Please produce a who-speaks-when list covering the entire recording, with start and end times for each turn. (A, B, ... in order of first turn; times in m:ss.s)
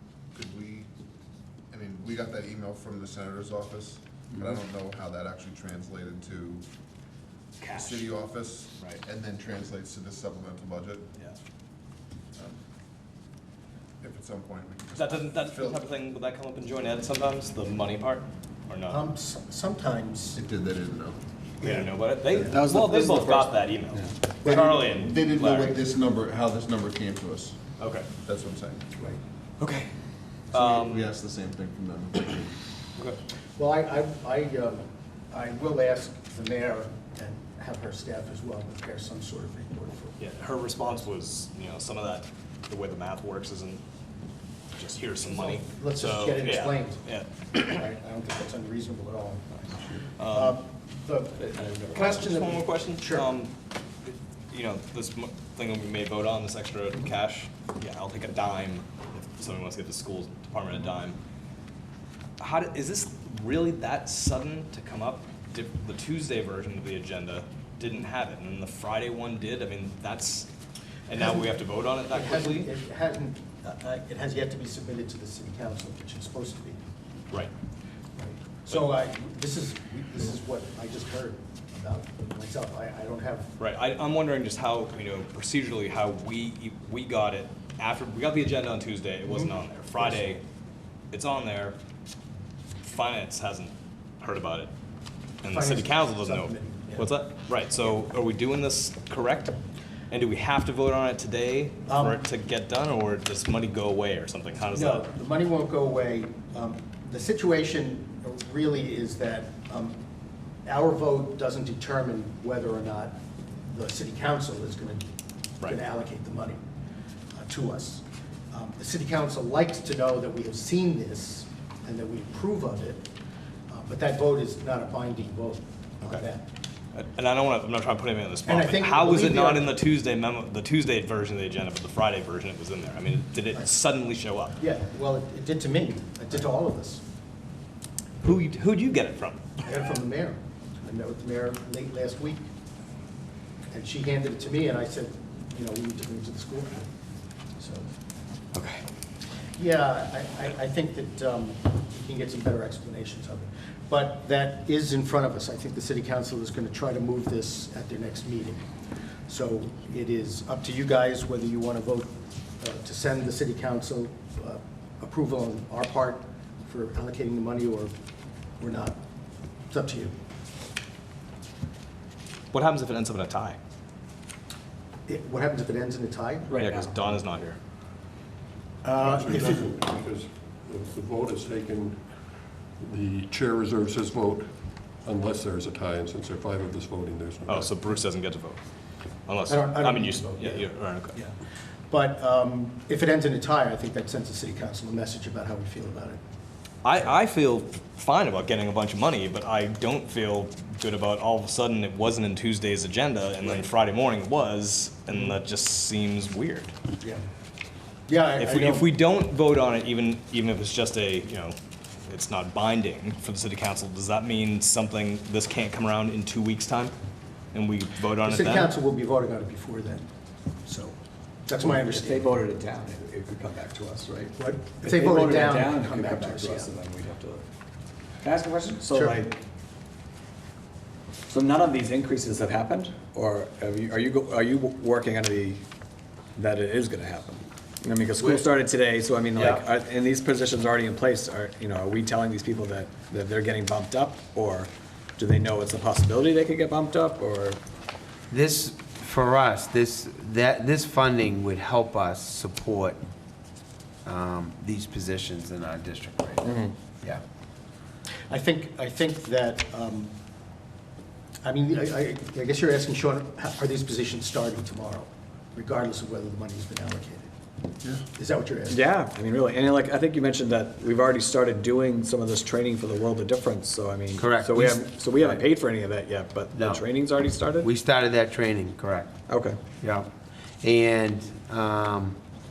0:00.3-0:00.9 A
0:01.7-0:06.6 A
0:07.6-0:08.2 B
0:07.6-0:11.1 A
0:14.0-0:15.8 A
0:14.9-0:19.0 B
0:18.9-0:20.4 C
0:20.3-0:21.2 A
0:21.6-0:22.6 C
0:21.6-0:25.8 B
0:22.3-0:24.1 D
0:24.4-0:27.6 A
0:24.4-0:24.8 C
0:27.8-0:28.1 B
0:28.2-0:28.8 A
0:29.0-0:29.2 C
0:29.6-0:29.9 B
0:30.5-0:31.1 B
0:30.5-0:32.5 A
0:33.6-0:40.2 C
0:40.2-0:43.8 B
0:44.7-0:47.6 B
0:45.2-0:53.3 C
0:50.2-0:50.6 B
0:51.9-1:01.2 B
1:02.4-1:10.5 B
1:11.1-1:12.7 B
1:11.2-1:16.8 C
1:18.2-1:23.5 C
1:23.6-1:30.4 B
1:29.2-1:30.3 C
1:31.1-1:31.8 B
1:32.8-1:34.7 B
1:35.4-1:39.6 B
1:35.5-1:37.1 C
1:40.1-1:45.0 B
1:41.9-1:42.2 C
1:44.7-1:50.0 C
1:50.6-1:53.2 C
1:53.7-1:55.0 C
1:55.6-1:56.6 C
1:57.3-2:03.1 C
2:03.7-2:06.4 C
2:06.9-2:14.6 B
2:08.4-2:09.7 C
2:14.6-2:17.0 C
2:18.2-2:19.4 B
2:19.6-2:22.5 C
2:23.7-2:26.9 C
2:27.6-2:27.9 C
2:28.5-2:28.8 B
2:29.6-2:38.6 C
2:39.3-2:47.9 C
2:48.6-2:49.0 C
2:49.7-2:50.1 C
2:52.5-2:53.6 B
2:55.1-2:56.5 C
2:56.5-2:57.1 D
2:56.6-2:57.6 B
2:58.8-2:59.8 C
2:58.9-3:07.9 E
3:07.4-3:08.6 B
3:09.2-3:11.2 B
3:09.5-3:11.3 C
3:11.9-3:16.2 C
3:16.8-3:26.7 B
3:28.1-3:28.9 C
3:28.4-3:36.9 B
3:37.5-3:38.7 B
3:38.2-3:40.1 C
3:40.6-3:42.3 C
3:41.6-3:47.4 D
3:44.4-3:46.7 C
3:48.2-3:49.4 D
3:48.9-3:49.2 C
3:51.3-3:55.6 D
3:56.4-4:07.6 D
3:58.2-3:58.4 F
3:59.4-3:59.6 F
4:08.3-4:13.0 F
4:14.0-4:16.4 F
4:16.4-4:16.7 D
4:18.3-4:20.1 C
4:21.4-4:27.3 C
4:28.1-4:28.8 C
4:28.7-4:37.7 D
4:34.2-4:35.4 F
4:36.5-4:36.8 F
4:37.6-4:39.1 F
4:39.3-4:39.6 D
4:39.8-4:40.1 F
4:40.6-4:42.2 F